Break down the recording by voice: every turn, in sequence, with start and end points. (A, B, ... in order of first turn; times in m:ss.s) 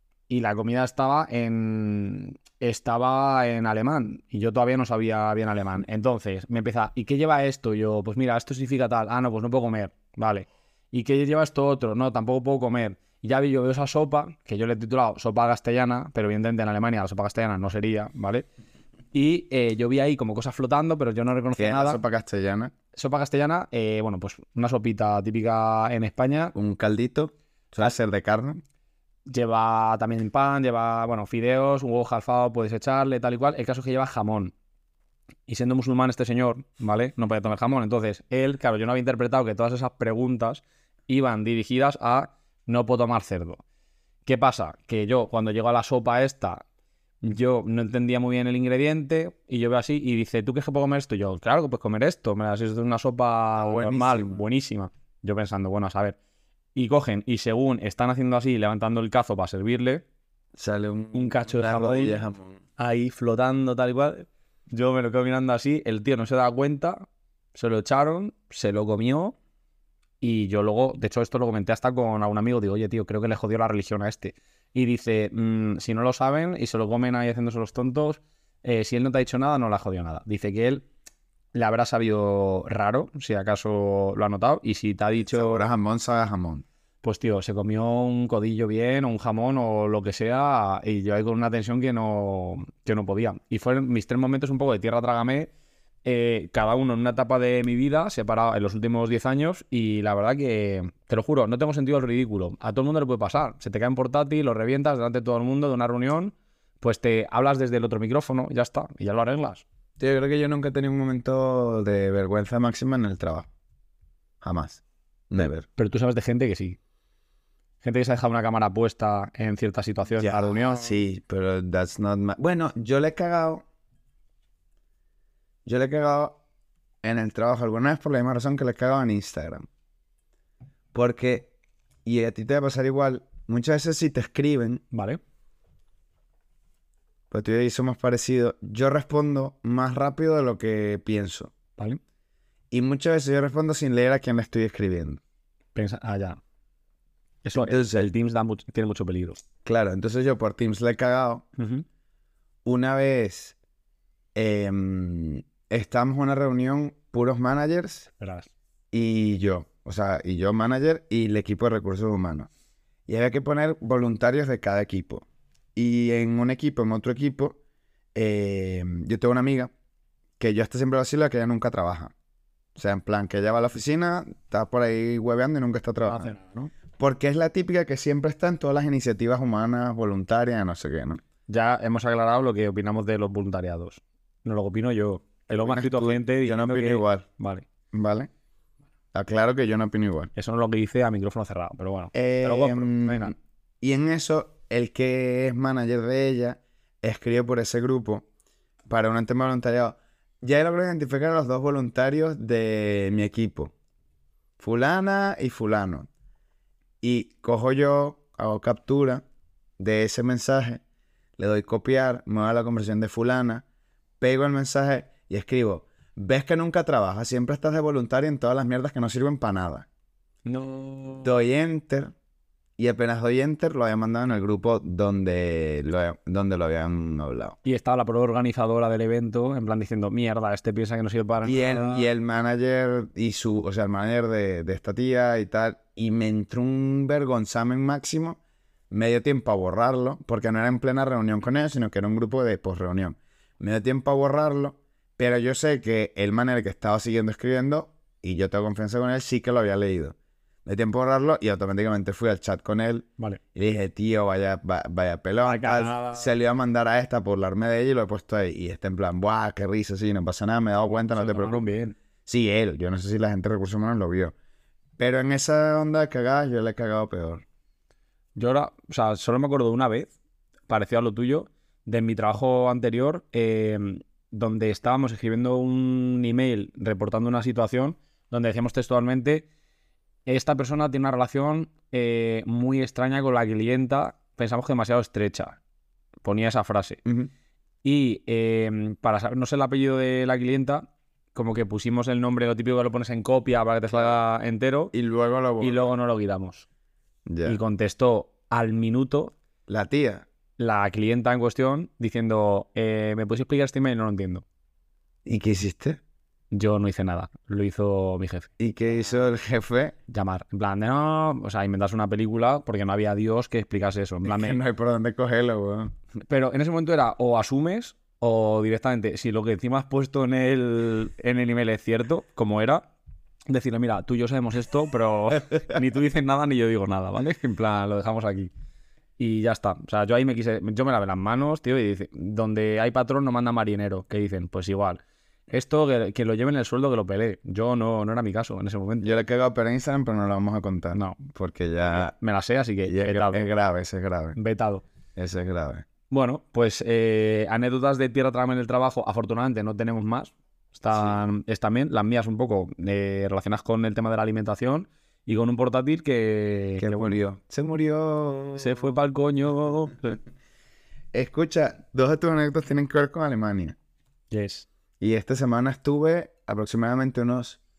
0:00.3-0:18.4 A
0:19.1-0:22.0 A
0:21.6-0:22.7 B
0:22.9-0:26.5 A
0:26.5-0:28.6 B
0:29.3-0:34.5 A
0:35.5-0:43.6 A
0:44.2-0:46.6 A
0:47.2-0:56.2 A
0:53.6-0:54.4 B
0:56.7-1:00.0 A
1:00.6-1:02.6 B
1:01.1-1:02.2 A
1:02.8-1:09.4 A
1:10.2-1:20.8 A
1:21.5-1:25.6 A
1:25.3-1:26.6 B
1:27.0-1:35.5 A
1:36.0-1:49.6 A
1:50.0-1:53.5 B
1:54.4-1:55.6 B
1:55.4-1:56.8 A
1:57.8-2:01.0 A
2:00.2-2:03.6 B
2:05.6-2:06.4 B
2:07.0-2:09.6 B
2:10.9-2:11.5 B
2:12.0-2:14.8 B
2:14.9-2:15.2 A
2:17.3-2:21.5 B
2:22.7-2:25.2 B
2:25.7-2:26.4 A
2:27.4-2:29.4 A
2:27.5-2:28.1 B
2:29.6-2:31.5 B
2:31.6-2:31.8 A
2:32.6-2:33.6 B
2:34.3-2:38.1 B
2:38.2-2:38.5 A
2:38.9-2:42.5 B
2:43.1-2:47.6 B
2:48.1-2:49.7 B
2:50.4-2:52.1 B
2:52.8-2:56.3 B
2:56.1-2:56.7 A
2:56.9-3:01.2 B
3:01.5-3:07.6 A
3:05.5-3:07.3 B
3:07.9-3:08.3 B
3:09.1-3:10.3 B
3:10.3-3:13.3 A
3:12.1-3:18.2 B
3:18.9-3:23.7 B
3:24.6-3:26.1 B
3:27.0-3:29.2 B
3:29.8-3:30.8 B
3:31.4-3:33.6 B
3:34.2-3:39.9 B
3:40.4-3:41.3 A
3:41.2-3:42.1 B
3:42.8-3:47.6 B
3:47.6-3:52.1 A
3:51.4-3:58.4 B
3:58.9-4:21.6 B
4:15.4-4:16.3 A
4:21.1-4:22.0 A
4:22.2-4:24.3 B
4:25.0-4:27.4 B
4:28.4-4:30.1 A
4:30.7-4:39.4 A
4:40.2-4:45.6 A
4:46.2-4:47.0 A
4:47.0-4:47.3 B
4:47.8-4:54.9 A
4:54.9-4:55.9 B
4:55.6-4:56.6 A
4:57.2-4:57.6 B
4:57.4-4:59.3 A
4:59.7-5:00.2 B
5:00.6-5:04.4 A
5:05.2-5:06.0 B
5:06.5-5:08.5 A
5:08.6-5:10.0 B
5:10.1-5:14.6 A
5:14.2-5:15.9 B
5:16.3-5:22.9 A
5:23.5-5:28.5 A
5:29.2-5:39.1 A
5:39.0-5:42.1 B
5:40.9-5:41.2 A
5:42.0-5:43.4 A
5:42.8-5:44.4 B
5:44.4-5:44.8 A
5:45.2-5:45.8 B
5:46.1-5:57.1 A
5:50.9-5:51.2 B
5:56.8-5:58.9 B
5:58.6-6:00.2 A
6:01.1-6:03.8 B
6:04.3-6:04.6 A
6:05.0-6:07.6 B